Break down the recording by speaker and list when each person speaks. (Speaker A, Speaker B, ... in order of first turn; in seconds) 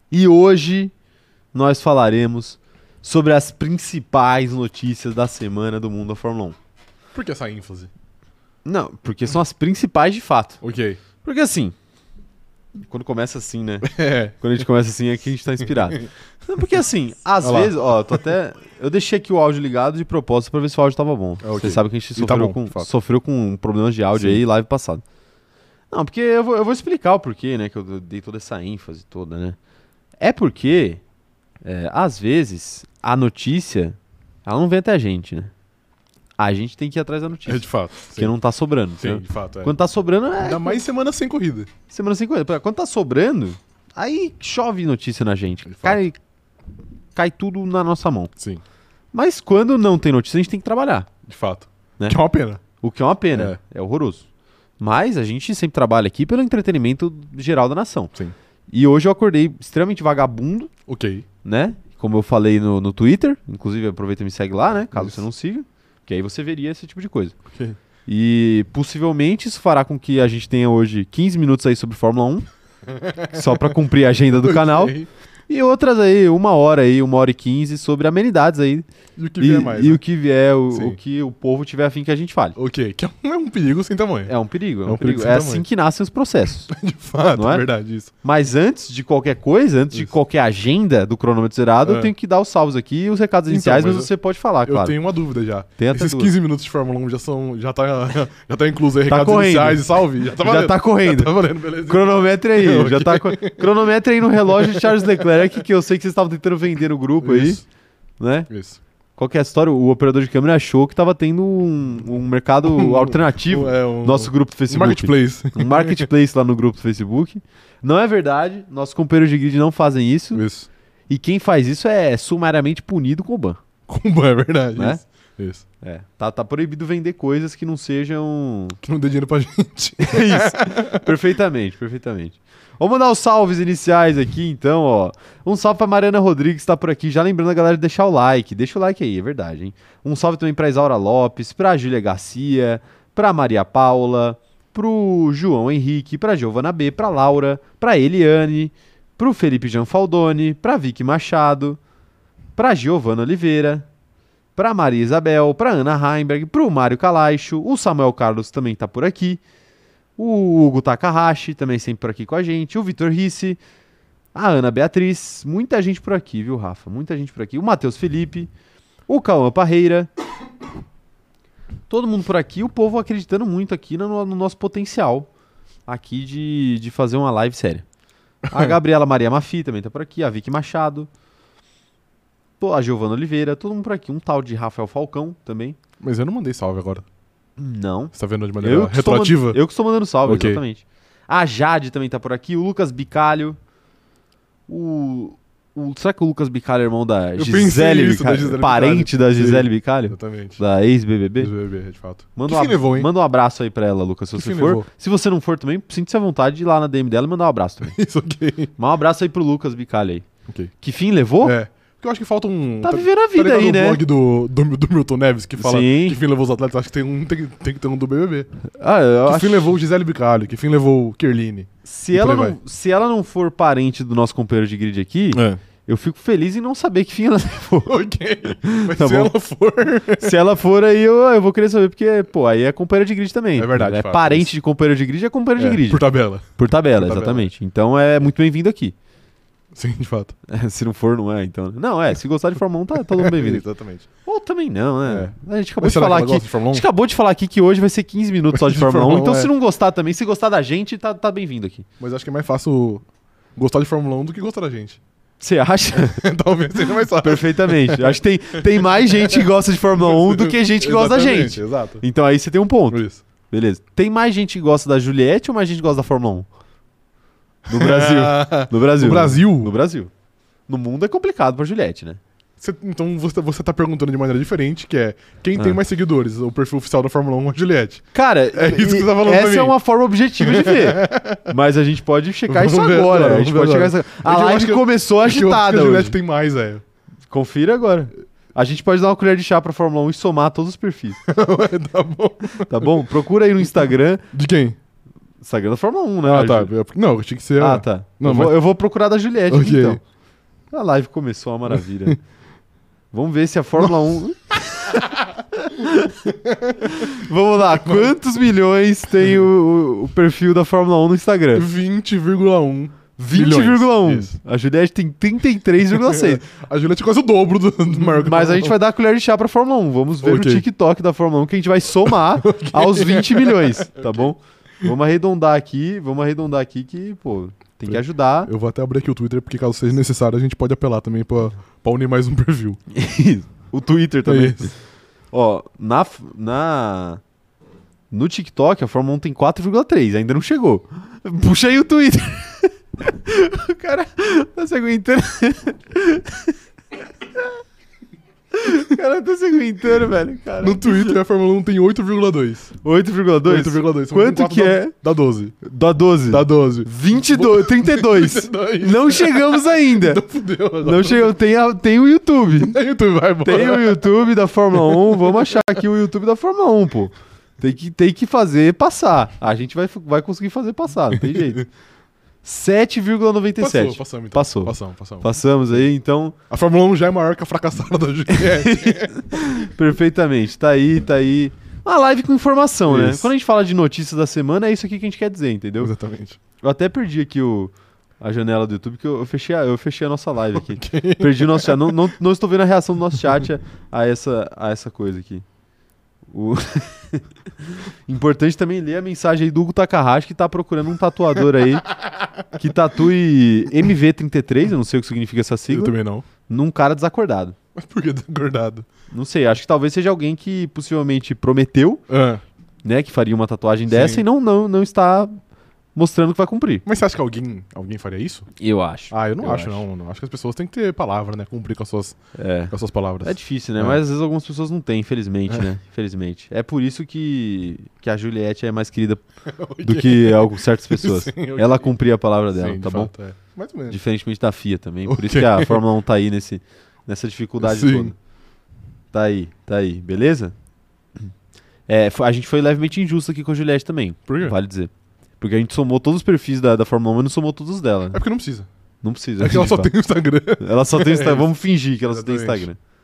Speaker A: 0.1-0.9, 1.5-6.5, 8.6-10.6, 11.2-11.7, 12.9-25.0, 25.9-29.6, 30.2-31.0, 31.6-35.5, 36.4-40.8, 41.9-46.1, 47.1-48.3, 49.1-51.1, 52.8-54.2, 54.8-58.1, 58.7-60.7, 61.4-67.3, 68.1-72.4, 73.3-75.0, 75.5-78.8, 79.4-82.6, 84.2-86.7, 87.3-87.7, 88.2-95.0, 95.8-96.3, 99.1-99.8, 100.4-107.6, 108.2-108.5, 109.2-120.4, 121.1-123.6, 124.8-125.0, 125.8-128.8, 130.0-151.8, 152.6-153.8, 154.6-159.4, 160.2-163.6, 164.3-168.5, 169.1-170.1, 171.9-175.3, 175.9-177.8, 178.5-181.1, 182.6-185.8, 187.6-193.6, 194.7-201.5, 202.3-207.9, 208.8-210.3, 210.8-211.6, 212.8-214.0, 215.6-216.2, 218.7-219.7, 221.8-227.9, 228.6-229.3, 230.2-236.0, 236.6-238.9, 240.5-243.6, 244.2-251.8, 255.4-256.2, 257.2-266.5, 267.7-270.1, 270.7-272.2, 278.1-286.1, 287.3-291.2, 292.7-294.2, 295.4-296.7, 297.6-300.0, 300.7-302.2, 303.1-306.2, 306.8-311.7, 313.1-316.4, 318.0-328.5, 332.9-334.7, 335.3-337.2, 338.1-346.5, 348.5-351.1, 352.8-354.9, 355.6-360.2, 360.8-362.8, 363.4-371.6, 372.4-376.4, 378.5-385.9, 386.6-395.4, 396.3-401.9, 402.6-405.9, 406.5-407.6, 409.1-412.0, 412.8-415.4, 415.9-416.8, 418.6-419.8, 422.3-429.2, 429.8-433.1, 433.9-438.1, 439.1-440.5, 441.9-448.2, 449.0-449.9, 450.6-452.8
Speaker B: 7.1-7.9, 10.6-11.0, 13.8-14.3, 17.4-17.7, 21.4-22.9, 37.5-38.3, 39.0-39.7, 40.4-41.7, 45.7-46.0, 48.4-48.6, 51.3-52.6, 53.3-53.6, 60.9-61.2, 64.9-65.2, 67.5-67.8, 72.9-73.7, 74.4-75.1, 79.2-80.0, 80.7-81.0, 82.5-84.3, 84.8-85.6, 86.7-88.1, 91.8-92.1, 93.5-94.1, 94.7-103.7, 104.4-105.4, 107.2-107.6, 108.5-108.8, 112.6-116.1, 120.3-120.7, 123.9-125.6, 128.8-131.1, 178.5-178.7, 186.0-187.0, 188.1-189.6, 190.2-190.6, 197.4-200.6, 201.4-203.1, 204.3-204.9, 207.9-208.7, 211.4-218.5, 219.2-222.6, 225.3-225.6, 227.8-230.4, 233.6-234.5, 235.6-237.5, 239.7-240.3, 243.1-244.1, 245.1-246.8, 248.5-249.5, 252.0-253.0, 253.6-255.0, 255.9-258.2, 258.7-259.5, 260.0-262.0, 262.9-263.2, 267.7-269.7, 272.6-279.8, 280.4-281.5, 282.5-286.8, 291.3-292.9, 294.3-294.8, 296.2-298.6, 299.5-300.0, 306.2-308.1, 311.5-314.4, 315.9-318.7, 320.2-320.6, 322.0-324.3, 327.9-332.8, 334.2-334.7, 350.6-352.8, 353.4-355.6, 356.3-361.3, 362.6-364.2, 364.7-365.8, 371.1-371.6, 373.6-375.8, 376.5-379.4, 382.9-383.3, 385.8-386.4, 390.5-391.9, 401.9-402.4, 405.7-406.2, 407.7-408.9, 412.1-412.4, 413.9-414.2, 416.8-418.5, 419.1-422.2, 422.7-424.0, 429.4-431.9, 432.6-434.0, 435.1-435.8, 437.6-438.1, 444.3-444.5, 448.1-448.7, 449.4-451.5, 452.1-452.7